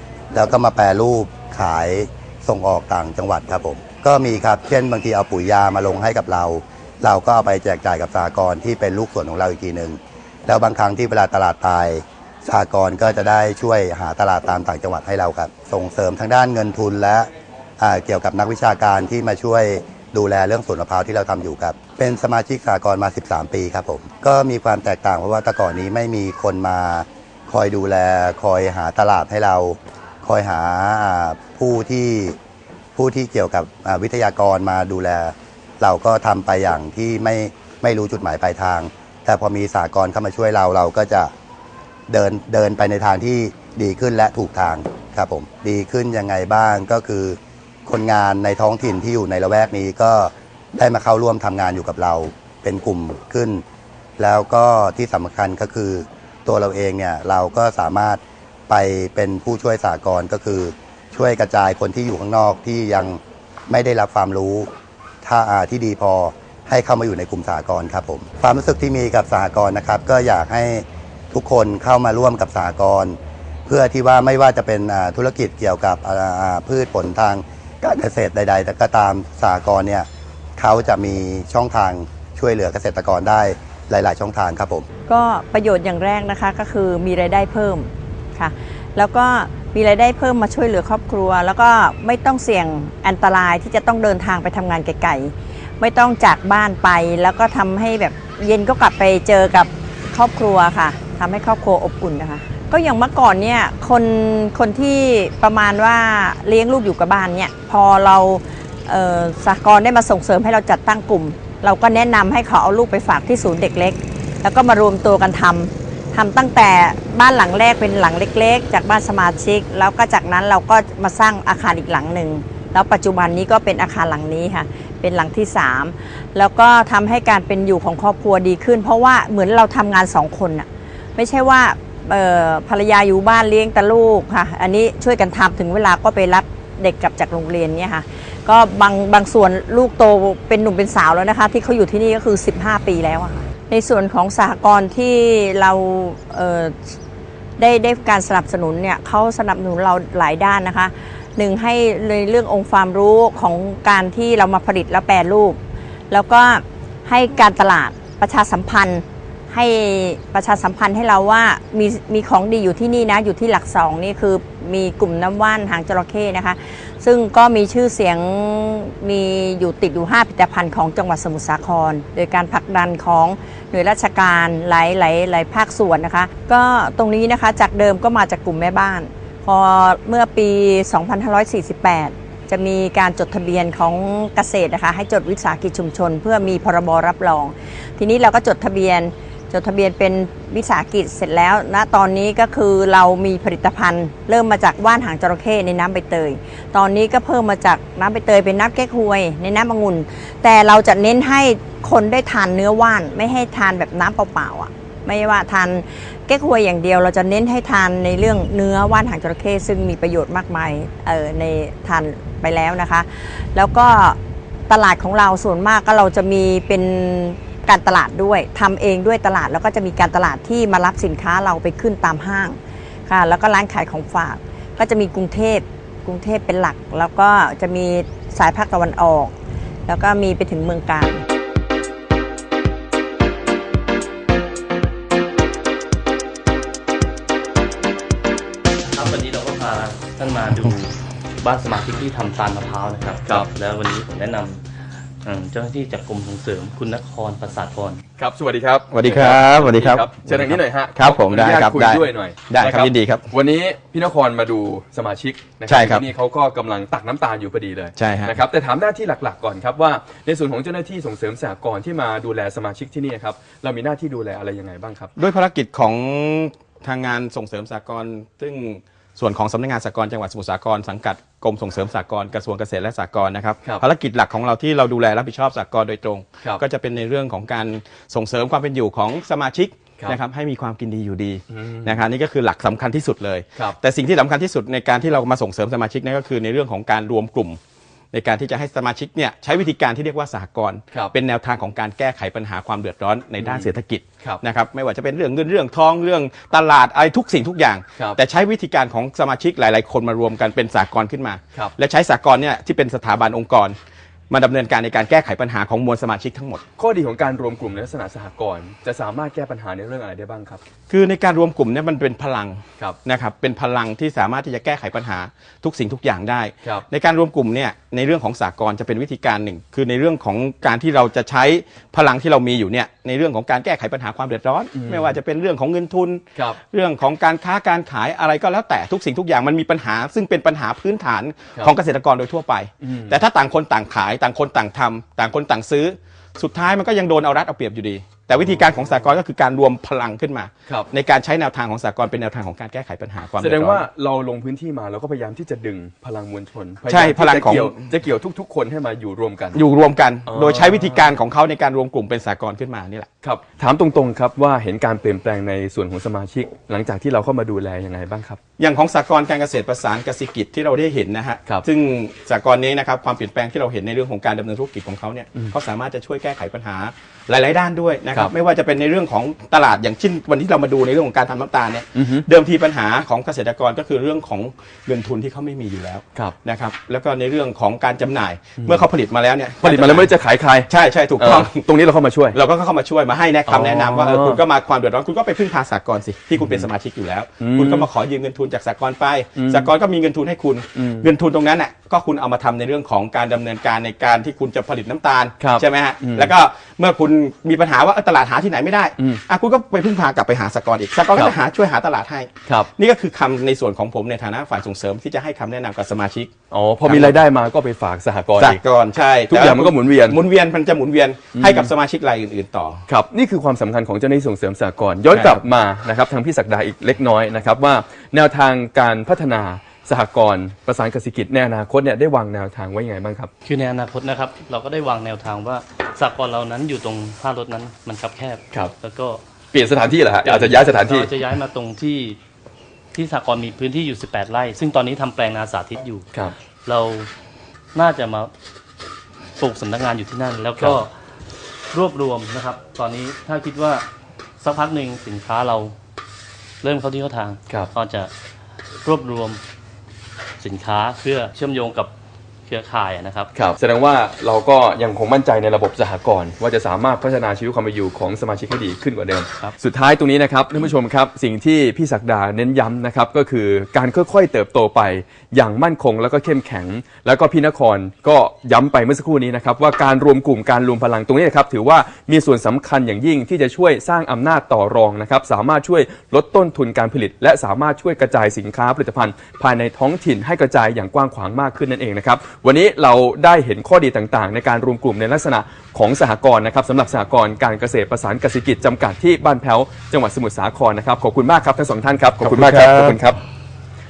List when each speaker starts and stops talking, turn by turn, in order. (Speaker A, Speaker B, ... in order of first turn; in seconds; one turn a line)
Speaker A: 0.3-17.3
Speaker A: 17.8-32.4
Speaker A: 33.0-41.3
Speaker A: 42.1-53.6
Speaker A: 54.2-64.7
Speaker A: 65.2-84.9
Speaker B: 85.1-146.9
Speaker B: 147.6-155.6
Speaker B: 156.1-214.2
Speaker B: 214.7-229.3
Speaker B: 229.9-231.2
Speaker C: 238.9-244.6
Speaker C: 245.2-248.0
Speaker D: 248.2-265.1
Speaker E: 248.9-253.2
Speaker E: 255.7-256.1
Speaker E: 258.0-258.4
Speaker E: 265.2-287.6
Speaker D: 281.5-282.0
Speaker E: 288.1-303.8
Speaker D: 293.4-294.4
Speaker E: 304.3-306.6
Speaker D: 306.8-310.6
Speaker E: 310.9-343.8
Speaker D: 324.7-325.2
Speaker D: 332.8-333.2
Speaker D: 338.4-338.9
Speaker D: 343.4-349.6
Speaker E: 346.9-347.9
Speaker E: 349.6-353.1
Speaker D: 350.3-351.1
Speaker D: 353.2-358.4
Speaker E: 358.6-380.1
Speaker D: 372.0-372.2
Speaker D: 379.6-382.4
Speaker E: 380.7-381.6
Speaker E: 382.3-406.3
Speaker D: 383.5-384.4
Speaker D: 386.4-386.7
Speaker D: 387.4-387.9
Speaker D: 389.4-389.7
Speaker D: 390.8-391.1
Speaker D: 395.4-396.3
Speaker D: 406.5-408.6
Speaker E: 406.9-407.2
Speaker E: 408.4-412.8
Speaker D: 409.3-410.2
Speaker D: 411.4-411.7
Speaker D: 412.9-423.3
Speaker E: 415.1-415.4
Speaker C: 423.5-429.2
Speaker D: 429.5-431.1
Speaker C: 430.2-432.2
Speaker C: 432.9-436.1
Speaker C: 436.7-437.1
Speaker C: 437.8-438.3
Speaker C: 439.4-440.9
Speaker C: 441.7-443.9
Speaker C: 444.4-445.8
Speaker C: 446.6-448.1
Speaker C: 448.8-449.4
Speaker C: 450.4-451.9
Speaker C: 452.5-453.3
Speaker D: 453.4-493.2